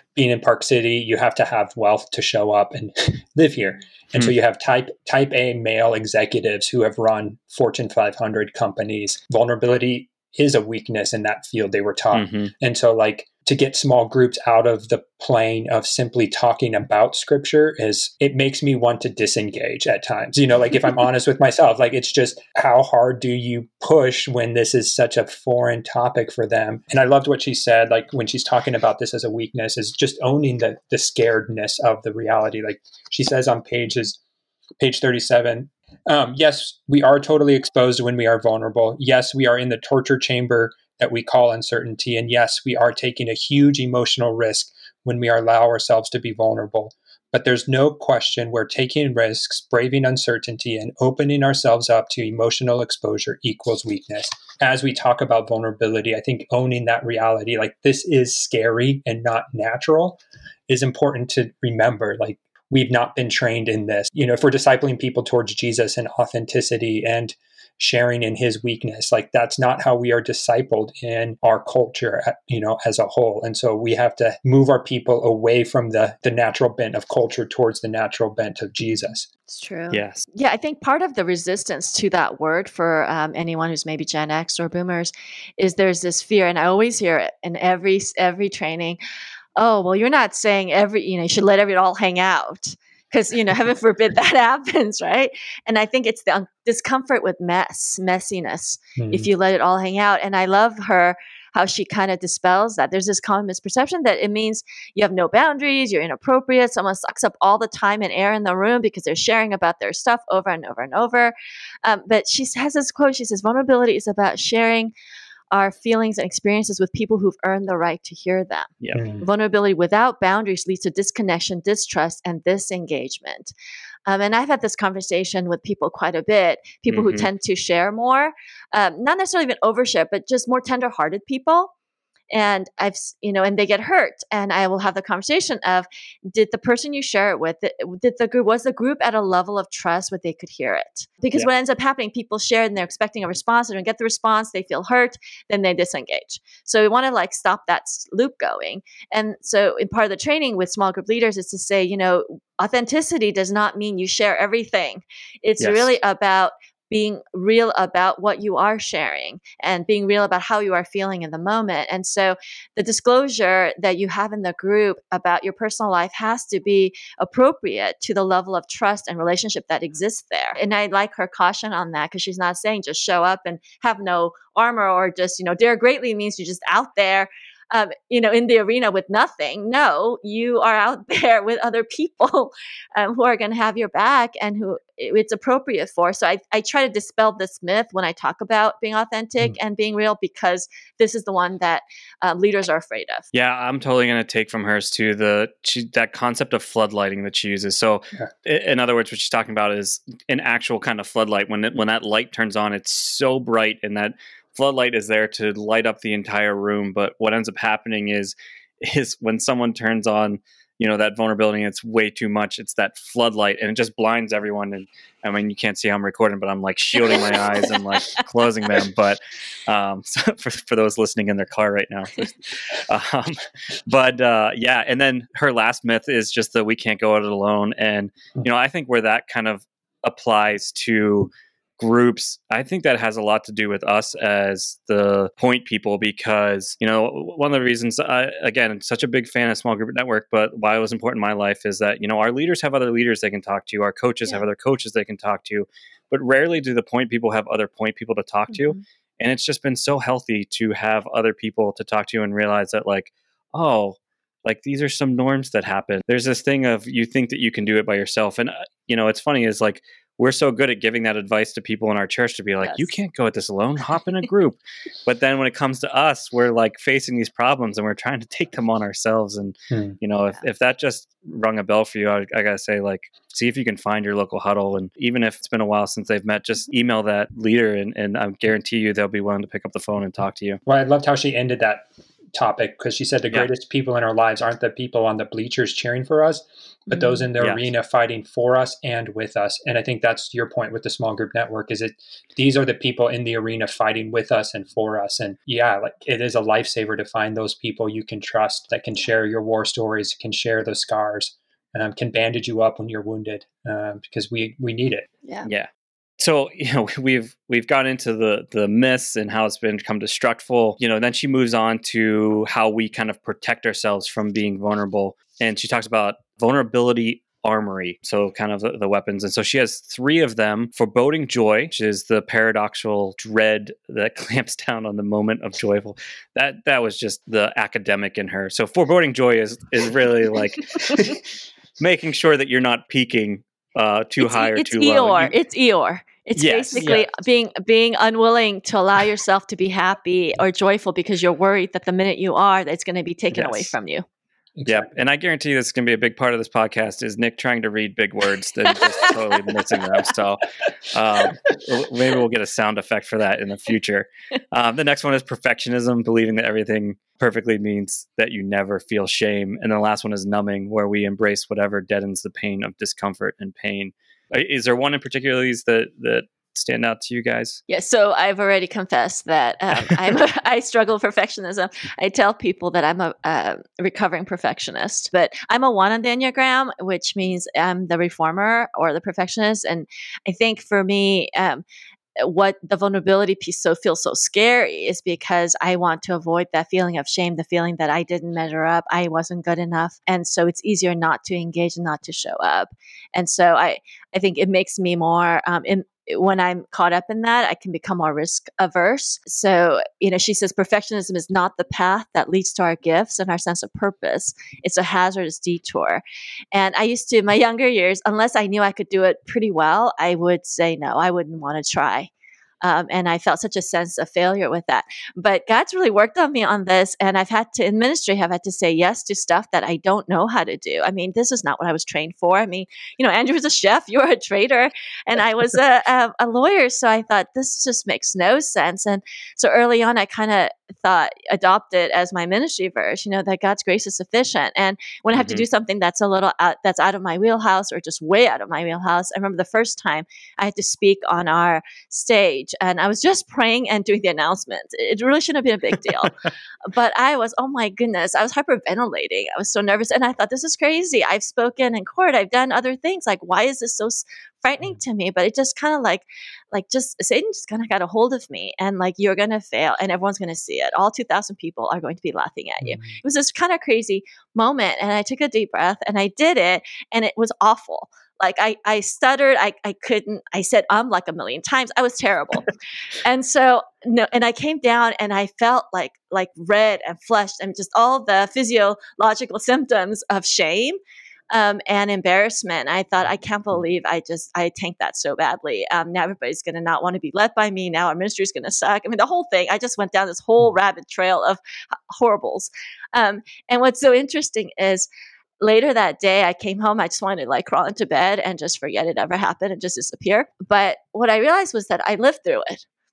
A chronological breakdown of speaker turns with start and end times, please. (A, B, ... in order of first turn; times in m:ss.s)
0:00.2-0:34.2 A
0:12.1-0:12.5 B
0:34.8-1:19.3 A
1:19.5-1:29.0 C
1:19.9-1:20.2 B
1:29.6-1:54.9 C
1:39.0-1:39.3 A
1:55.5-2:03.5 C
1:58.9-1:59.2 A
2:04.1-2:11.7 C
2:06.9-2:07.3 B
2:12.3-3:13.3 C
2:35.6-2:35.9 B
3:13.3-4:40.6 B
4:29.7-4:30.0 A
4:40.7-5:05.1 A
4:46.9-4:47.2 C
5:06.2-5:31.1 B
5:31.8-5:35.3 B
5:34.2-5:44.0 C
5:36.4-5:37.1 B
5:36.8-5:37.1 A
5:43.3-5:43.7 B
5:44.6-5:44.9 A
5:44.7-6:07.6 B
6:07.7-6:21.6 C
6:22.2-6:52.1 C
6:52.6-7:52.5 C
7:15.1-7:15.4 B
7:42.6-7:43.0 A
7:53.0-8:00.8 C
8:01.3-8:11.4 C
8:11.9-8:14.9 C
8:15.4-8:22.6 C